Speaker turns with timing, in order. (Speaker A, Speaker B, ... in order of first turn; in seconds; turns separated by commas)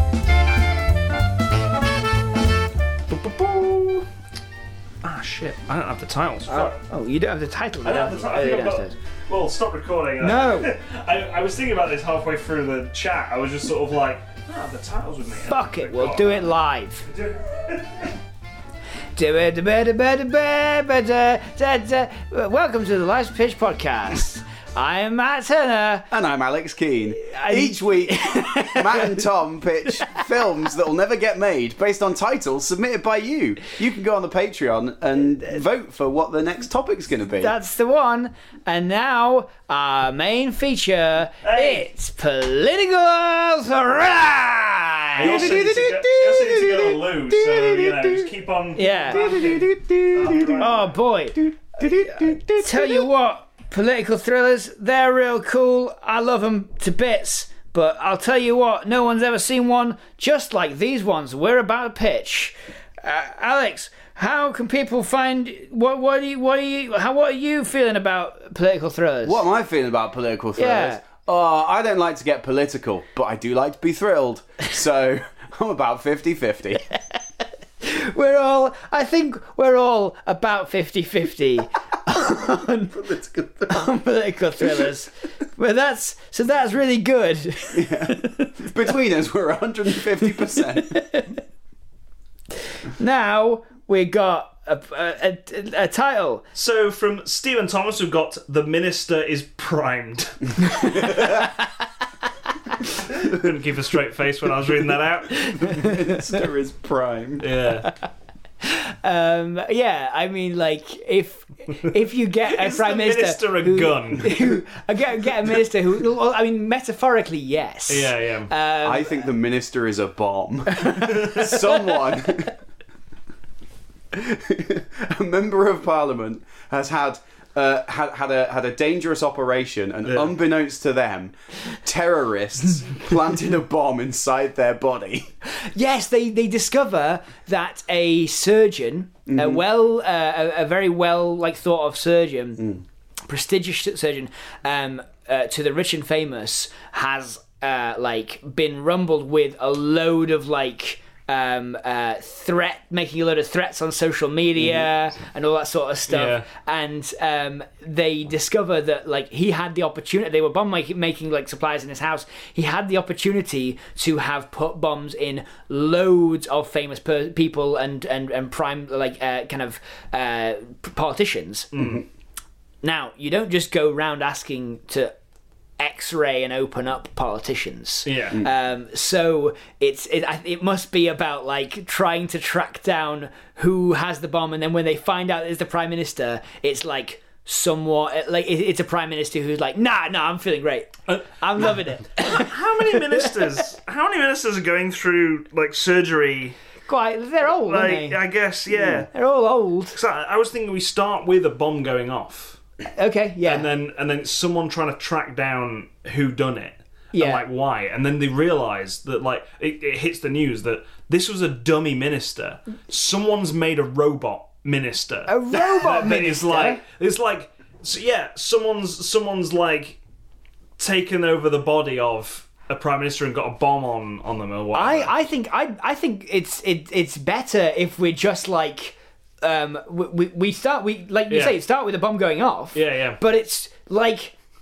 Speaker A: 3.1-4.1, Speaker A: 5.0-6.8, Speaker B: 6.5-9.0, Speaker A: 7.8-16.5, Speaker B: 10.2-10.7, Speaker B: 15.5-17.1, Speaker A: 17.1-18.1, Speaker B: 19.2-26.1, Speaker C: 26.1-37.5, Speaker B: 27.2-29.3, Speaker B: 29.9-30.5, Speaker B: 37.3-46.0, Speaker A: 41.4-41.9, Speaker A: 45.2-50.9, Speaker C: 45.2-46.9, Speaker B: 48.8-49.4, Speaker C: 49.1-50.7, Speaker B: 50.6-51.4, Speaker C: 51.4-53.1, Speaker B: 52.5-69.4, Speaker C: 69.2-76.8, Speaker B: 70.6-71.0, Speaker B: 77.8-83.1, Speaker C: 83.0-83.8, Speaker B: 83.7-88.7, Speaker C: 87.7-91.0, Speaker B: 90.3-91.4, Speaker B: 92.8-96.4, Speaker A: 96.5-101.3, Speaker B: 100.7-101.5, Speaker A: 103.1-105.6, Speaker C: 105.4-107.5, Speaker B: 105.4-106.4, Speaker A: 107.4-107.9, Speaker B: 108.6-119.3, Speaker A: 112.5-114.5, Speaker A: 117.9-118.5, Speaker C: 118.8-122.5, Speaker B: 120.7-122.1, Speaker C: 124.1-135.3, Speaker A: 130.1-130.3, Speaker B: 135.5-171.7, Speaker C: 139.3-139.6, Speaker A: 156.1-156.5, Speaker A: 171.7-172.0, Speaker B: 172.8-175.1, Speaker B: 175.8-193.4, Speaker A: 178.1-178.4, Speaker A: 192.1-196.6, Speaker B: 196.9-198.2, Speaker A: 197.6-199.1, Speaker B: 199.1-200.0, Speaker A: 199.9-202.6, Speaker B: 203.0-203.7, Speaker A: 203.4-220.0, Speaker B: 207.1-207.4, Speaker B: 215.3-216.8, Speaker A: 220.8-225.1, Speaker B: 224.7-234.3, Speaker A: 231.3-231.6, Speaker A: 232.7-233.2